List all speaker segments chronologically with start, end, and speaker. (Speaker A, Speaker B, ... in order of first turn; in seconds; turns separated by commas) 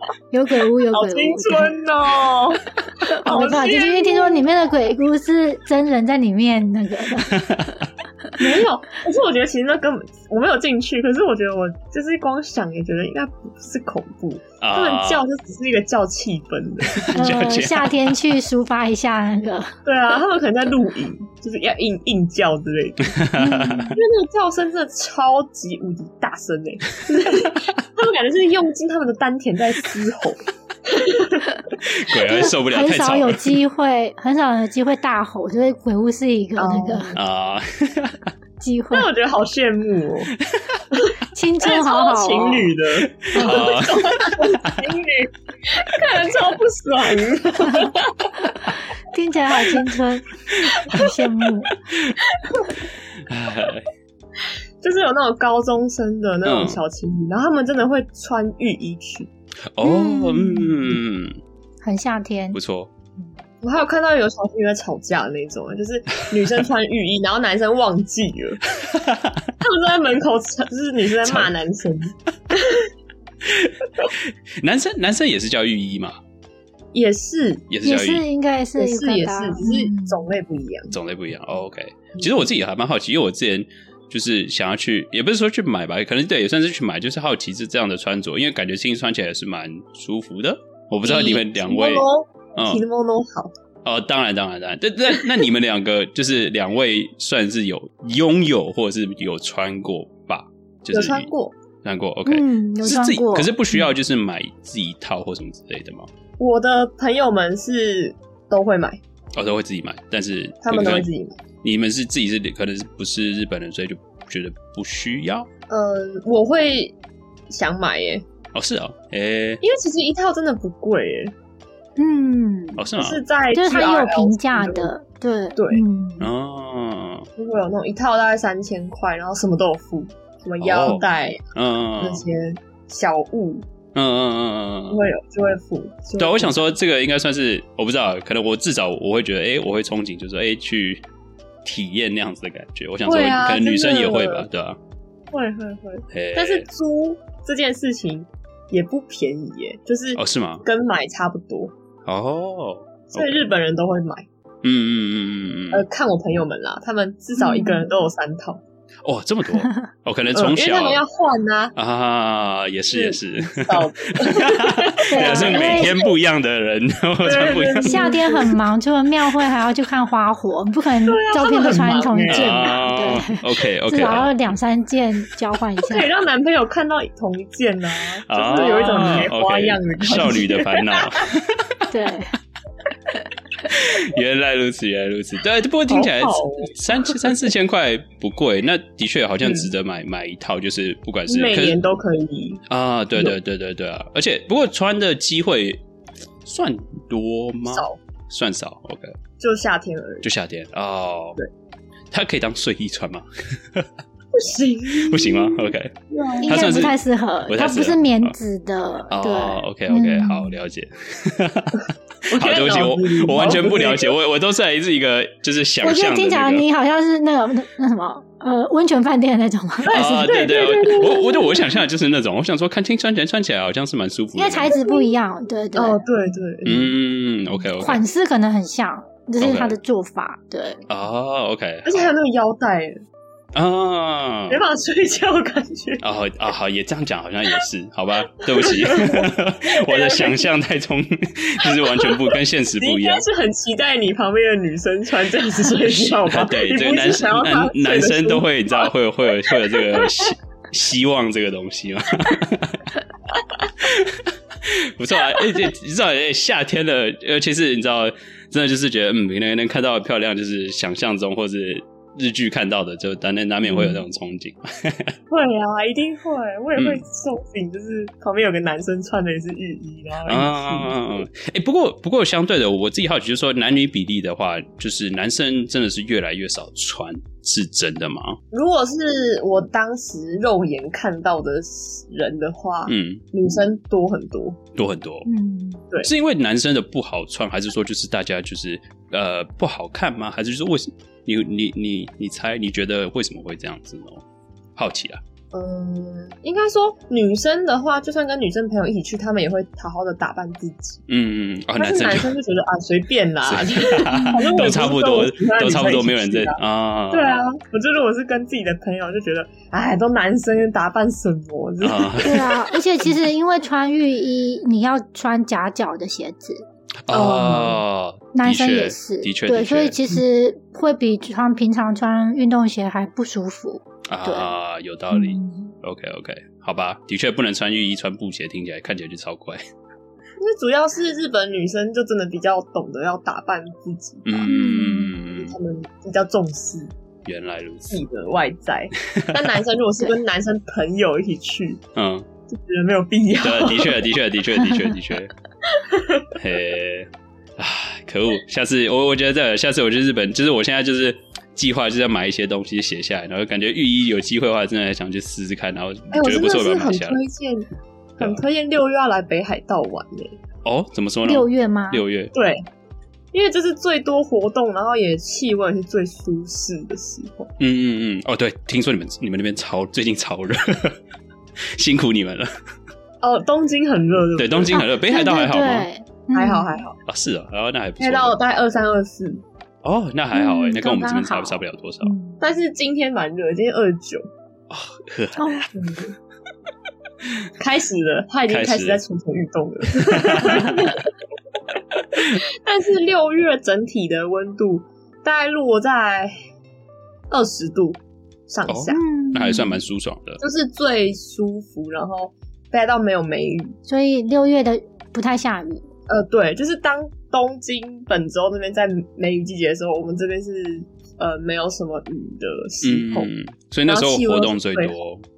Speaker A: 0.3-1.8, Speaker B: 0.9-4.5, Speaker A: 3.0-7.5, Speaker C: 7.3-7.9, Speaker B: 8.4-17.2, Speaker C: 14.6-15.2, Speaker C: 16.9-18.1, Speaker A: 17.1-19.7, Speaker B: 19.8-23.2, Speaker C: 23.1-23.9, Speaker A: 23.4-24.0, Speaker B: 23.9-31.6, Speaker C: 31.8-33.6, Speaker A: 32.1-37.1, Speaker B: 36.6-37.2, Speaker C: 37.1-38.3, Speaker A: 38.6-39.1, Speaker B: 38.9-40.3, Speaker C: 40.5-40.8, Speaker A: 41.3-42.7, Speaker B: 41.6-48.3, Speaker C: 43.2-44.7, Speaker A: 43.3-43.7, Speaker A: 48.7-51.8, Speaker B: 52.2-52.8, Speaker C: 53.3-53.9, Speaker B: 54.8-59.3, Speaker C: 56.4-56.8, Speaker C: 59.7-61.4, Speaker A: 59.8-61.0, Speaker A: 61.8-62.6, Speaker C: 62.5-62.9, Speaker B: 63.6-68.6, Speaker C: 68.8-69.5, Speaker B: 69.6-72.9, Speaker C: 71.2-71.5, Speaker C: 73.4-76.2, Speaker B: 76.9-77.7, Speaker C: 77.7-78.2, Speaker A: 77.8-80.3, Speaker B: 78.8-80.9, Speaker C: 80.9-92.0, Speaker B: 91.0-93.5, Speaker C: 92.5-92.8, Speaker C: 93.8-101.3, Speaker B: 100.9-101.5, Speaker C: 101.8-106.1, Speaker A: 102.2-103.8, Speaker B: 106.4-109.0, Speaker C: 109.3-111.0, Speaker B: 110.6-111.4, Speaker C: 111.6-115.5, Speaker B: 115.7-117.0, Speaker B: 117.5-118.2, Speaker C: 118.5-119.6, Speaker B: 119.6-121.3, Speaker A: 122.0-122.9, Speaker C: 122.8-123.2, Speaker B: 123.0-124.9, Speaker A: 123.5-126.3, Speaker B: 125.5-125.8, Speaker C: 126.2-127.3, Speaker B: 127.4-131.4, Speaker C: 130.6-132.2, Speaker B: 132.0-133.7, Speaker C: 133.9-135.0, Speaker B: 134.9-136.8, Speaker C: 136.2-141.0, Speaker C: 141.6-144.8, Speaker B: 143.1-144.5, Speaker B: 145.3-151.7, Speaker C: 146.1-146.7, Speaker C: 150.2-150.6, Speaker C: 152.1-153.4, Speaker B: 153.1-154.2, Speaker C: 154.6-155.8, Speaker B: 155.7-158.6, Speaker A: 157.4-157.8, Speaker C: 159.0-161.0, Speaker B: 160.3-161.7, Speaker C: 161.8-168.1, Speaker B: 162.9-166.1, Speaker A: 165.1-165.9, Speaker B: 167.2-168.6, Speaker A: 167.8-176.1, Speaker B: 171.1-172.8, Speaker C: 172.3-174.3, Speaker B: 175.8-181.2, Speaker C: 178.3-181.9, Speaker A: 178.6-179.2, Speaker A: 181.9-182.3, Speaker C: 183.7-191.8, Speaker B: 185.9-187.4, Speaker B: 189.4-189.7, Speaker B: 191.3-192.6, Speaker C: 192.7-195.8, Speaker C: 196.4-199.2, Speaker B: 197.7-198.0, Speaker B: 199.4-200.3, Speaker C: 200.2-201.4, Speaker C: 202.1-203.9, Speaker B: 204.3-206.8, Speaker C: 205.0-205.9, Speaker A: 206.4-210.6, Speaker C: 206.4-208.3, Speaker C: 209.1-216.6, Speaker B: 212.3-214.1, Speaker A: 215.8-220.4, Speaker C: 219.9-224.7, Speaker B: 219.9-221.7, Speaker A: 224.3-226.0, Speaker B: 224.7-225.1, Speaker B: 225.7-226.9, Speaker C: 226.6-228.0, Speaker A: 227.8-230.8, Speaker C: 229.4-229.8, Speaker C: 230.9-232.1, Speaker B: 231.8-233.0, Speaker C: 233.5-234.6, Speaker B: 234.5-236.0, Speaker C: 236.0-243.2, Speaker B: 238.4-240.4, Speaker B: 241.7-242.2, Speaker B: 242.8-248.9, Speaker C: 245.8-252.8, Speaker B: 249.5-250.2, Speaker C: 253.8-265.1, Speaker B: 255.3-255.6, Speaker B: 265.3-271.2, Speaker C: 266.8-267.0, Speaker C: 270.3-278.4, Speaker B: 278.5-284.6, Speaker C: 282.9-283.2, Speaker C: 284.8-285.2, Speaker A: 285.2-285.8, Speaker C: 286.0-294.2, Speaker C: 294.8-295.2, Speaker B: 295.5-301.0, Speaker C: 301.1-302.3, Speaker B: 301.8-306.6, Speaker C: 303.4-307.4, Speaker A: 304.1-304.5, Speaker B: 307.1-312.4, Speaker C: 311.8-312.5, Speaker A: 312.2-316.6, Speaker C: 317.1-320.0, Speaker B: 317.1-317.8, Speaker A: 318.3-324.5, Speaker C: 324.1-329.6, Speaker A: 325.1-325.7, Speaker B: 330.4-334.6, Speaker C: 334.2-335.5, Speaker A: 334.4-335.2, Speaker B: 335.2-336.9, Speaker C: 337.2-338.0, Speaker B: 337.9-341.8, Speaker C: 339.1-339.5, Speaker C: 341.9-342.3, Speaker B: 342.5-344.1, Speaker C: 343.4-345.3, Speaker A: 344.7-344.9, Speaker B: 345.7-346.3, Speaker C: 346.3-357.2, Speaker B: 356.1-360.4, Speaker C: 360.6-362.3, Speaker A: 361.2-362.0, Speaker B: 362.3-362.6, Speaker B: 363.3-367.5, Speaker C: 367.6-371.0, Speaker C: 371.8-372.5, Speaker B: 373.2-374.8, Speaker C: 374.4-375.9, Speaker A: 374.7-376.7, Speaker B: 376.3-377.0, Speaker C: 377.1-378.4, Speaker B: 378.0-379.4, Speaker C: 379.8-382.1, Speaker A: 380.3-382.4, Speaker B: 382.4-384.3, Speaker C: 384.7-385.7, Speaker A: 385.4-385.7, Speaker B: 385.7-386.1, Speaker B: 387.6-391.1, Speaker C: 388.5-389.0, Speaker C: 390.0-390.9, Speaker B: 392.1-396.3, Speaker B: 397.3-399.0, Speaker C: 398.7-400.4, Speaker A: 398.9-399.8, Speaker B: 400.4-403.7, Speaker A: 403.9-405.9, Speaker B: 406.1-413.3, Speaker C: 412.8-415.2, Speaker B: 413.9-414.9